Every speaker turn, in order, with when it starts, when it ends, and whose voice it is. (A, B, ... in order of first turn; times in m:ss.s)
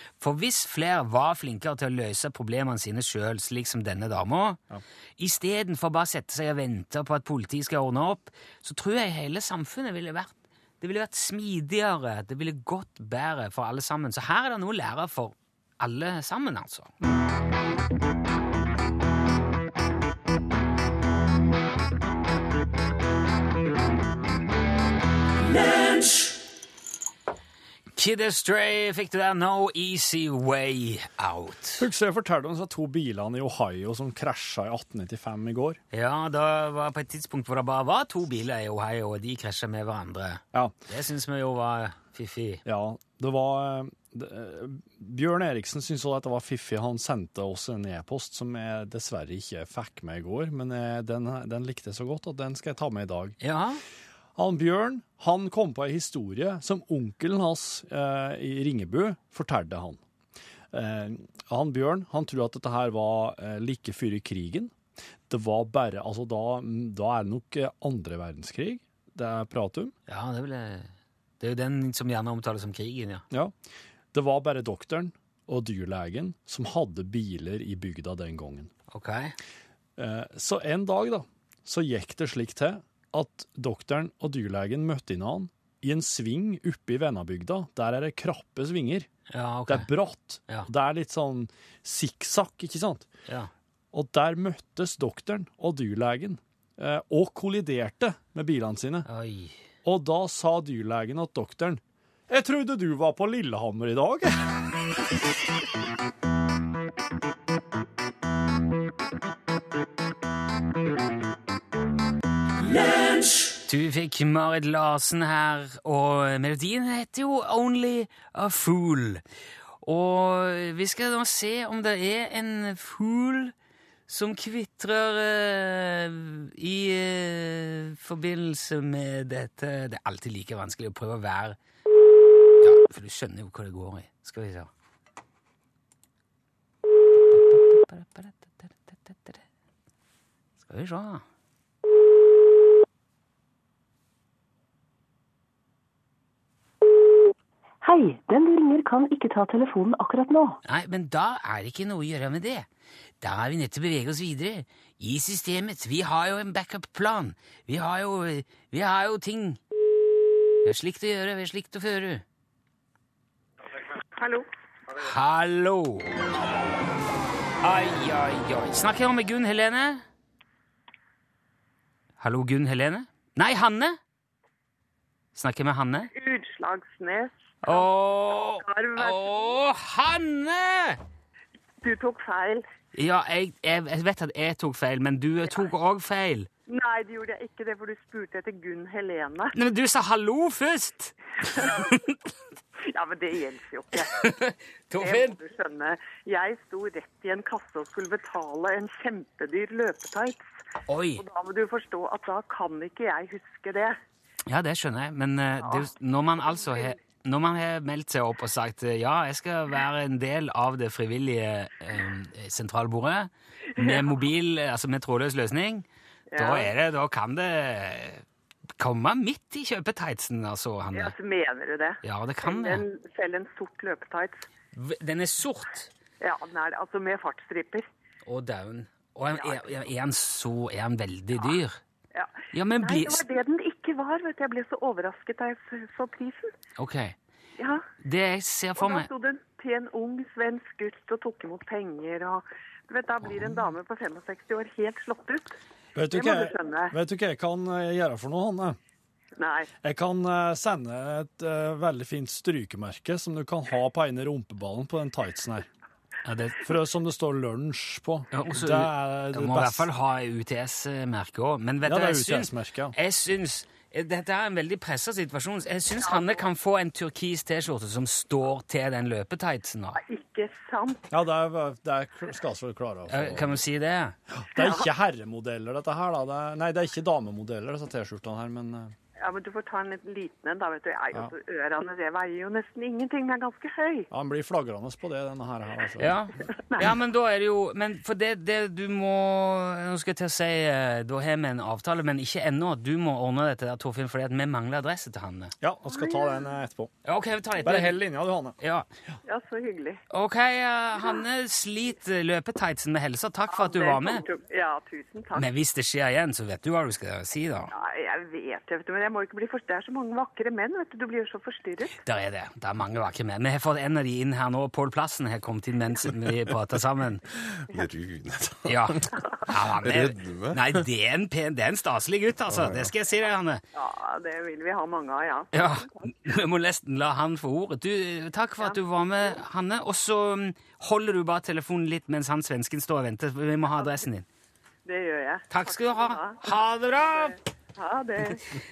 0:00.2-0:04.6 A
0:05.2-0:16.9 A
0:27.9-0:31.8 A
0:31.8-0:35.8 B
0:35.9-0:42.6 A
0:42.6-0:53.4 B
0:53.4-0:53.8 A
0:54.4-1:00.0 B
1:00.7-1:04.7 B
1:05.3-1:09.9 B
1:10.1-1:13.2 A
1:14.1-1:18.7 B
1:18.9-1:19.4 A
1:20.0-1:29.1 B
1:29.3-1:29.9 A
1:29.7-1:33.1 B
1:33.9-1:39.1 B
1:39.0-1:39.6 A
1:39.8-1:44.6 B
1:53.6-1:59.2 A
1:59.8-2:03.5 A
2:04.1-2:11.6 A
2:12.6-2:14.7 A
2:17.3-2:19.4 A
2:20.6-2:21.2 A
2:27.8-2:30.6 C
2:30.6-2:32.7 A
2:33.2-2:39.6 A
2:40.6-2:42.2 A
2:44.2-2:44.4 D
2:45.0-2:46.1 A
2:47.6-2:50.0 A
2:52.2-2:54.0 A
2:55.4-2:56.1 A
2:56.1-2:57.9 D
2:57.6-3:01.0 A
2:58.6-2:59.5 D
3:01.8-3:02.6 D
3:02.9-3:06.5 A
3:06.7-3:09.5 D
3:09.5-3:12.2 A
3:11.5-3:11.8 D
3:12.8-3:14.2 D
3:14.0-3:15.4 A
3:15.0-3:20.4 D
3:20.9-3:21.2 A
3:21.2-3:24.0 D
3:24.5-3:35.9 A
3:25.6-3:25.9 D
3:26.4-3:26.9 D
3:33.8-3:34.1 D
3:36.3-3:36.7 D
3:36.4-3:38.2 A
3:38.8-3:41.1 A
3:40.9-3:44.4 D
3:42.0-3:42.8 A
3:44.7-3:45.9 A
3:46.2-3:47.9 D
3:48.2-3:51.8 A
3:52.1-3:56.5 D
3:52.5-3:53.2 A
3:56.8-3:57.2 A
3:57.6-3:57.8 D
3:58.0-3:59.1 A
3:58.8-4:05.5 D
4:05.9-4:08.8 B
4:06.1-4:06.9 D
4:09.4-4:09.7 D
4:09.8-4:15.7 B
4:16.2-4:16.6 A
4:16.6-4:19.9 B
4:18.3-4:30.0 A
4:21.9-4:23.0 B
4:26.0-4:26.4 D
4:30.0-4:31.1 D
4:31.1-4:33.6 B
4:33.1-4:34.2 A
4:34.3-4:38.9 B
4:34.6-4:34.9 D
4:39.2-4:44.1 D
4:44.1-4:46.2 B
4:46.0-4:55.5 A
4:55.6-4:56.9 B
4:55.9-4:56.5 D
4:57.0-4:58.0 A
4:57.6-4:58.6 B
4:58.6-4:58.9 A
4:59.2-5:00.0 D
5:00.1-5:04.2 A
5:03.5-5:05.5 D
5:05.3-5:07.7 A
5:07.7-5:12.0 D
5:12.0-5:17.2 A
5:17.6-5:19.1 E
5:18.6-5:23.6 A
5:19.7-5:20.8 E
5:22.5-5:22.9 E
5:23.7-5:26.1 D
5:25.5-5:34.2 A
5:34.8-5:38.4 D
5:35.5-5:37.4 A